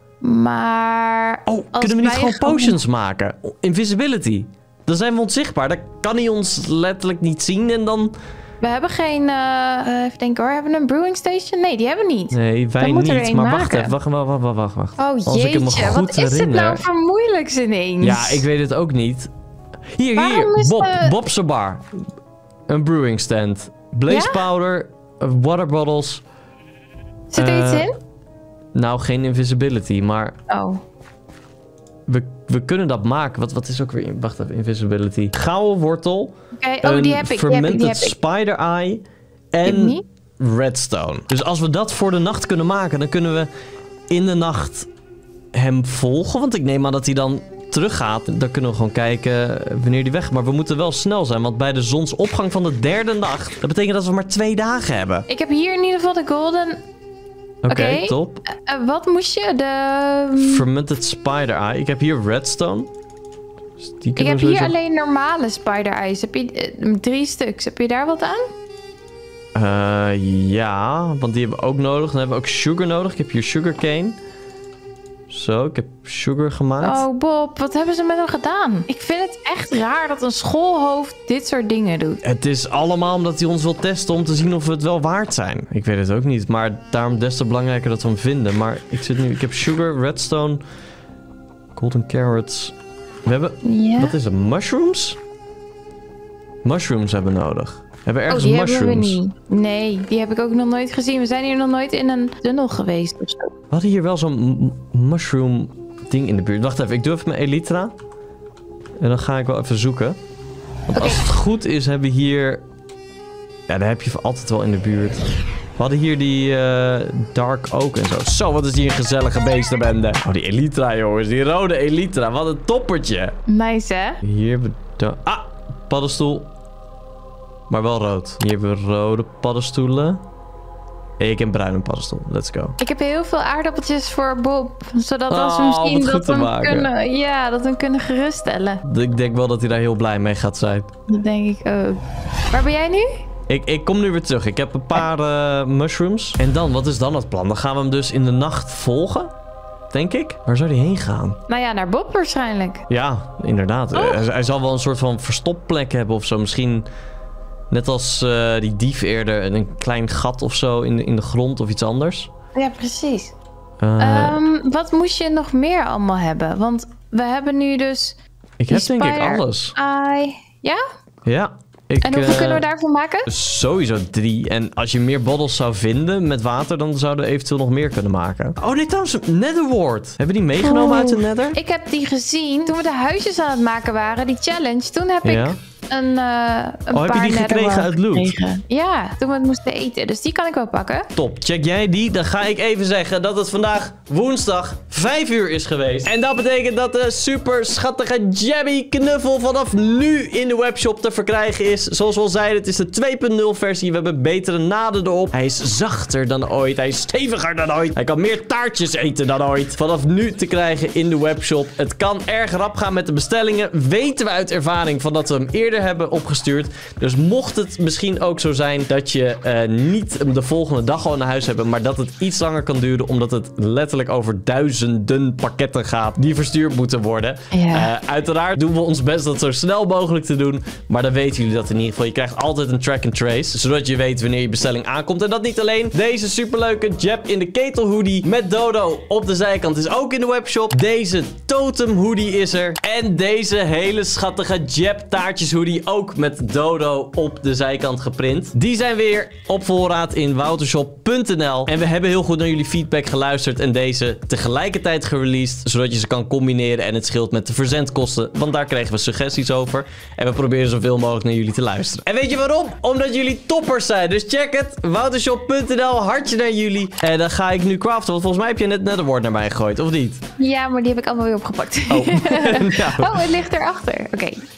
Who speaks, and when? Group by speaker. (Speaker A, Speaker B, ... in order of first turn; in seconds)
Speaker A: 0.2-2.8, 8.6-13.9, 15.0-18.4, 20.2-21.2, 24.1-24.4, 27.3-27.9, 30.5-30.8, 36.5-38.1, 39.6-40.0, 55.3-56.8, 57.7-60.6, 64.2-68.5, 76.8-82.2, 93.6-94.2, 98.3-103.5, 110.9-111.2, 123.5-124.2, 132.8-138.8, 141.1-143.2, 151.5-152.8, 153.9-154.2, 162.6-163.3, 164.0-168.2, 168.7-170.8, 172.0-173.3, 180.6-191.1, 227.5-227.9, 270.4-274.4
Speaker B: 1.5-8.1, 12.3-16.8, 18.0-19.3, 19.9-21.8, 22.7-26.2, 27.4-27.9, 28.7-30.4, 32.1-43.5, 44.1-44.9, 45.5-55.3, 57.6-58.4, 60.4-62.9, 63.8-64.8, 69.5-74.2, 75.3-77.0, 82.2-90.6, 91.7-92.8, 93.2-95.2, 96.6-99.2, 103.7-107.9, 109.0-110.2, 110.9-112.6, 113.7-123.4, 124.2-126.5, 127.7-130.2, 131.2-132.8, 135.3-136.9, 138.8-140.9, 143.5-149.3, 149.9-151.4, 152.9-156.9, 157.7-162.3, 163.8-164.4, 168.6-169.8, 171.2-172.7, 173.3-181.6, 185.2-185.6, 186.9-188.4, 191.1-270.2, 271.9-273.2